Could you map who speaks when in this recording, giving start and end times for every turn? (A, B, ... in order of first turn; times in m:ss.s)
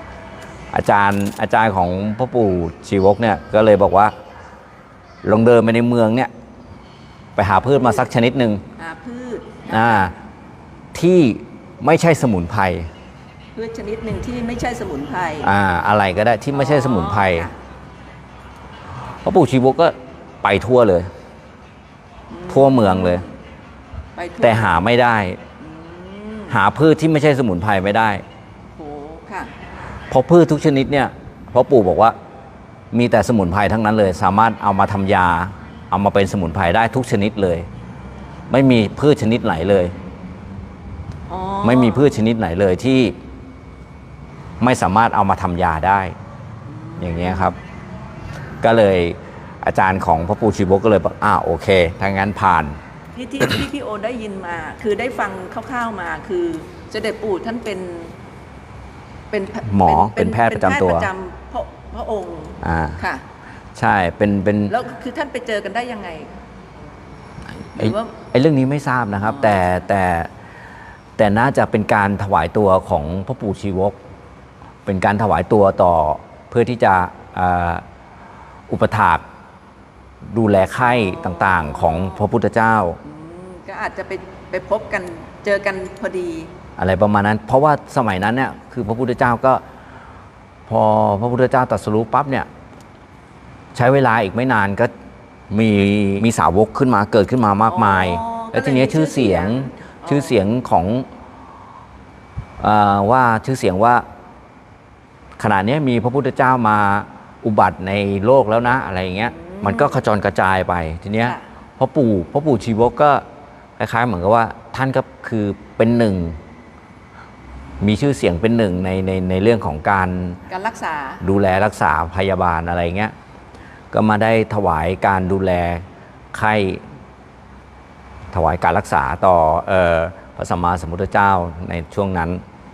0:00.7-0:04.1 A
0:05.2-0:06.3 A
0:07.4-0:08.6 A
0:08.8-0:10.1 B
0:09.7-0:10.1 A
0:10.9-0:12.9 A
0:13.5-0:15.5 B
0:15.4-0:17.5 A
0:16.5-0:17.5 B
0:19.2-0:21.1 A
0:22.3-0:23.3 B
0:22.5-0:23.2 A
0:24.2-0:24.8 B
0:24.4-0:25.4 A
0:25.6-0:26.6 B
0:26.5-0:28.2 A
0:28.8-0:29.5 B
0:30.1-0:32.1 A
0:32.9-0:37.7 A
0:38.5-0:39.9 A
0:41.3-0:42.1 B
0:41.6-0:43.2 A
0:44.6-0:46.1 A
0:46.6-0:47.5 B
0:47.0-0:47.6 A
0:48.6-0:52.8 A
0:53.1-0:58.1 B
0:59.3-1:03.2 B
0:59.6-1:01.1 A
1:02.6-1:03.0 A
1:03.8-1:04.7 A
1:04.7-1:06.3 B
1:07.7-1:08.1 B
1:07.8-1:10.3 A
1:09.2-1:09.8 B
1:11.2-1:14.0 A
1:14.8-1:17.8 A
1:18.7-1:19.2 A
1:20.2-1:23.0 A
1:20.8-1:22.2 B
1:23.0-1:26.5 B
1:26.8-1:29.6 A
1:30.7-1:32.5 A
1:33.7-1:34.9 A
1:35.5-1:41.0 A
1:37.7-1:40.4 B
1:42.6-1:44.0 A
1:45.4-1:53.2 A
1:49.2-1:50.0 B
1:53.8-1:56.4 A
1:57.8-2:00.4 A
2:00.5-2:01.2 B
2:01.2-2:03.1 A
2:03.9-2:06.8 A
2:08.3-2:12.4 A